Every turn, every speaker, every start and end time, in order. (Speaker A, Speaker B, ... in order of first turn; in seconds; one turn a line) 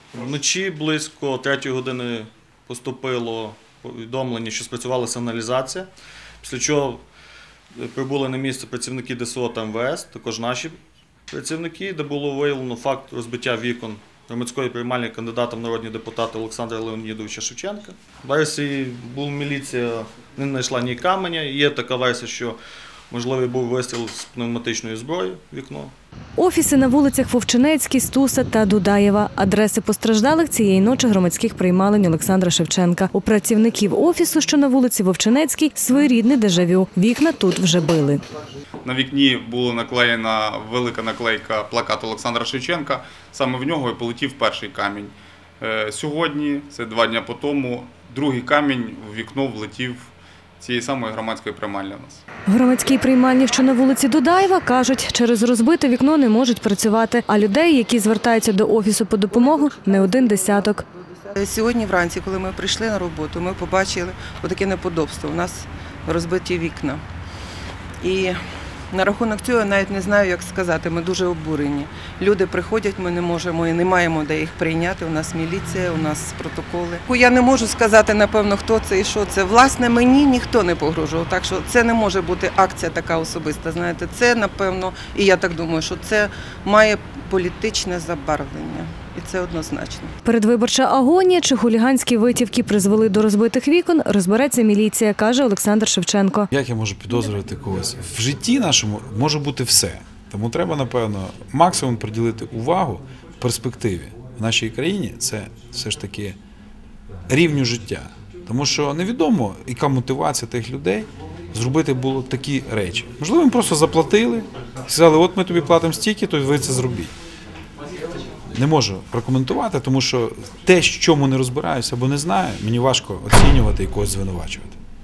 Speaker A: 0.1-5.9
Speaker A: 6.4-7.0
Speaker A: 7.7-10.8
Speaker A: 11.3-22.6
Speaker A: 23.1-25.9
Speaker B: 26.4-38.2
Speaker C: 38.8-52.2
Speaker B: 52.5-60.8
Speaker D: 61.2-67.0
Speaker D: 68.0-68.4
Speaker D: 68.9-90.1
Speaker B: 90.2-96.5
Speaker E: 96.5-106.4
Speaker E: 107.3-117.1
Speaker E: 118.5-124.8